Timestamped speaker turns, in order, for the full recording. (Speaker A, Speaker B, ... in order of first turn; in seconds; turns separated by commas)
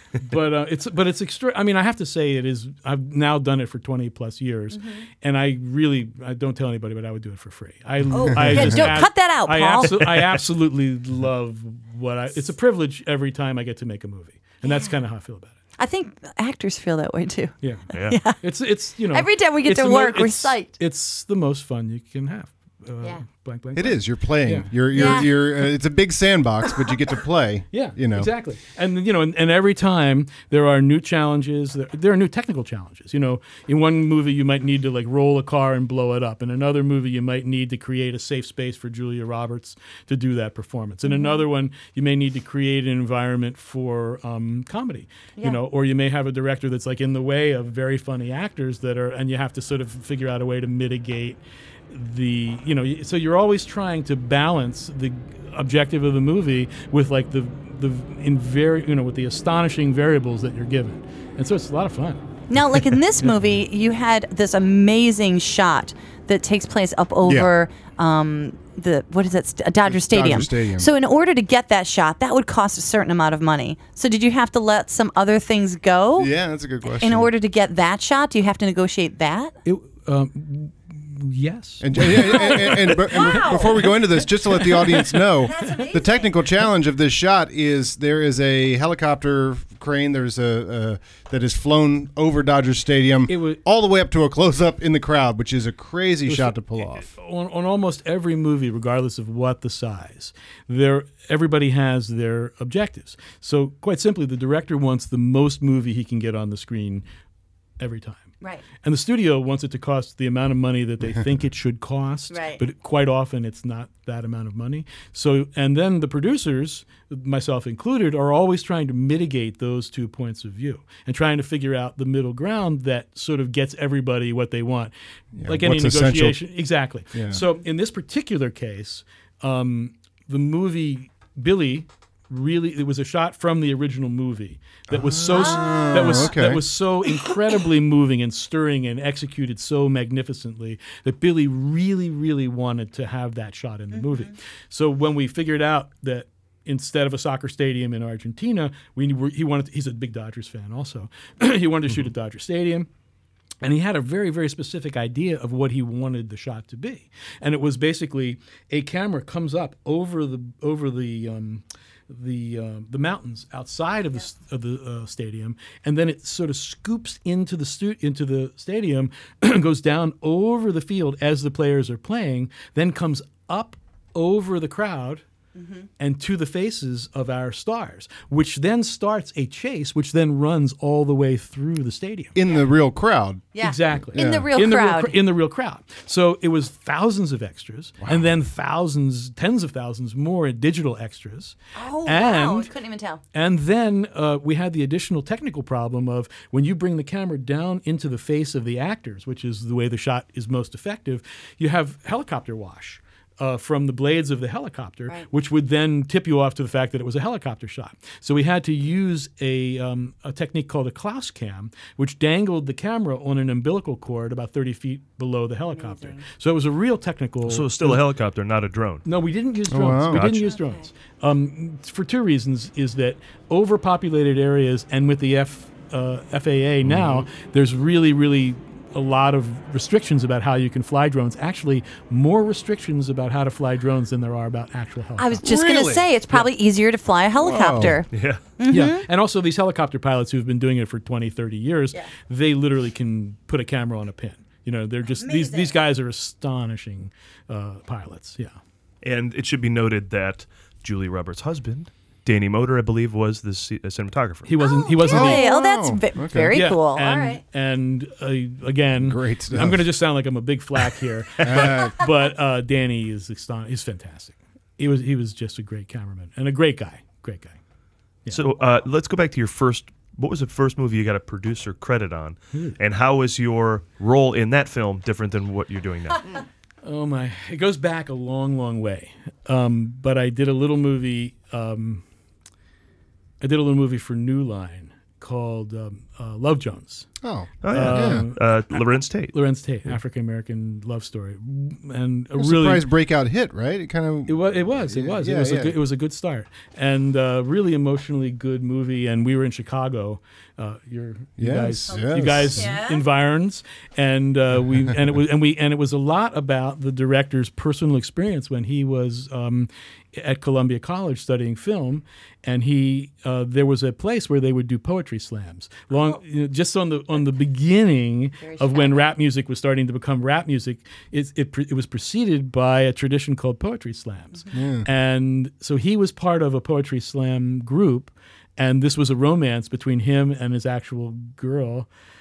Speaker A: 0.2-15.5, Speaker B: 4.7-5.0, Speaker B: 8.1-9.9, Speaker C: 8.3-9.0, Speaker D: 9.9-10.4, Speaker B: 14.6-14.9, Speaker B: 15.8-17.5, Speaker A: 17.6-25.2, Speaker B: 18.1-18.4, Speaker B: 19.1-20.7, Speaker C: 23.7-28.3, Speaker B: 24.9-25.4, Speaker A: 27.7-62.2, Speaker B: 41.0-41.4, Speaker B: 62.5-76.3, Speaker A: 63.2-63.6, Speaker C: 67.2-67.5, Speaker C: 69.8-70.9, Speaker C: 76.2-77.3, Speaker B: 76.8-79.5, Speaker A: 79.7-85.2, Speaker C: 81.8-97.1, Speaker B: 82.1-83.9, Speaker B: 85.1-86.4, Speaker A: 93.3-93.6, Speaker A: 96.3-107.0, Speaker A: 107.8-108.3, Speaker A: 108.8-124.9, Speaker B: 112.3-112.6, Speaker C: 125.3-126.4, Speaker A: 125.4-152.9, Speaker C: 127.1-127.4, Speaker C: 134.9-136.7, Speaker B: 135.3-136.4, Speaker B: 143.9-144.3, Speaker A: 153.6-175.2, Speaker B: 175.6-175.9, Speaker A: 176.0-182.4, Speaker C: 182.3-183.4, Speaker B: 183.5-185.2, Speaker A: 183.6-192.7, Speaker C: 184.1-184.5, Speaker C: 188.0-188.3, Speaker B: 191.8-193.2, Speaker A: 193.3-218.1, Speaker B: 215.7-216.2, Speaker D: 217.4-219.1, Speaker A: 219.1-235.6, Speaker C: 219.7-220.2, Speaker B: 220.3-220.9, Speaker C: 226.8-227.3, Speaker B: 235.2-238.1, Speaker C: 235.4-236.1, Speaker C: 237.4-238.0, Speaker D: 238.1-238.4, Speaker B: 238.6-239.1, Speaker A: 238.7-248.6, Speaker B: 245.2-245.8, Speaker D: 249.0-254.6, Speaker A: 254.5-255.5, Speaker B: 254.6-257.4, Speaker C: 255.1-256.6, Speaker A: 256.5-267.6, Speaker C: 259.0-259.9, Speaker C: 261.4-262.1, Speaker D: 268.3-276.3, Speaker A: 272.5-272.8, Speaker A: 276.8-282.0, Speaker A: 283.4-287.1, Speaker C: 287.2-288.2, Speaker D: 287.6-289.4, Speaker A: 287.7-292.9, Speaker C: 292.4-295.8, Speaker A: 294.3-331.9, Speaker C: 301.4-302.7, Speaker B: 301.9-303.1, Speaker B: 315.9-316.2, Speaker B: 318.4-319.1, Speaker C: 324.5-324.9